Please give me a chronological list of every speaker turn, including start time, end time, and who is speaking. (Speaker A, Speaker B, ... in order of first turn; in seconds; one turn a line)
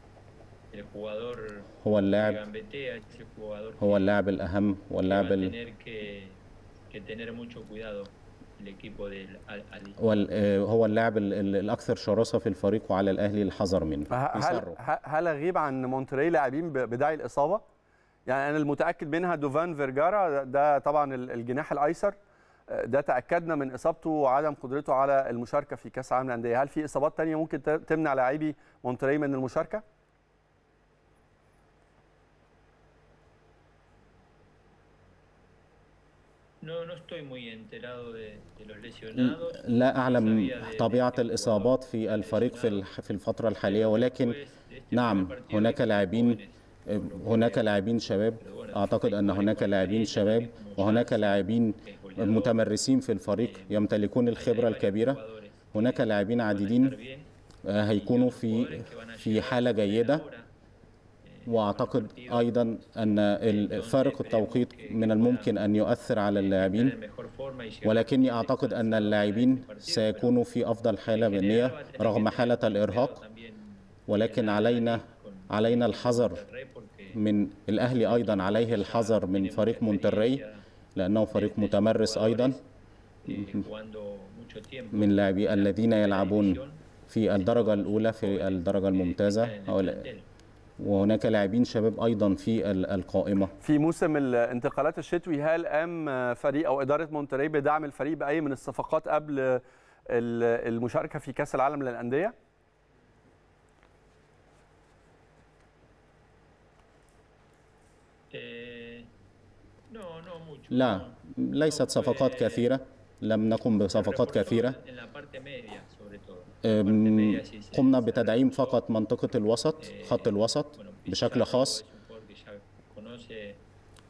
Speaker A: 0.7-4.1
Speaker B: 1.8-2.4
Speaker B: 3.8-5.5
Speaker A: 5.0-10.0
Speaker B: 10.0-14.8
Speaker C: 14.1-17.6
Speaker C: 18.2-22.1
Speaker C: 22.7-29.8
Speaker A: 36.6-42.9
Speaker B: 39.1-44.4
Speaker A: 43.6-47.7
Speaker B: 44.9-55.2
Speaker A: 48.4-52.6
Speaker A: 53.4-57.3
Speaker B: 55.7-57.0
Speaker B: 57.6-60.2
Speaker A: 57.9-60.5
Speaker A: 61.2-62.5
Speaker B: 61.5-67.0
Speaker A: 63.4-65.6
Speaker A: 66.3-70.3
Speaker B: 67.8-73.2
Speaker A: 71.1-77.2
Speaker B: 74.1-76.4
Speaker B: 77.1-80.4
Speaker A: 78.0-80.6
Speaker B: 80.9-82.6
Speaker A: 81.3-82.7
Speaker A: 83.2-86.8
Speaker B: 83.3-83.6
Speaker B: 84.9-90.1
Speaker A: 87.4-90.3
Speaker B: 90.8-93.5
Speaker C: 93.6-102.3
Speaker A: 108.3-109.1
Speaker A: 109.9-112.7
Speaker B: 110.7-114.8
Speaker A: 113.9-118.8
Speaker B: 116.6-121.8
Speaker A: 119.8-123.6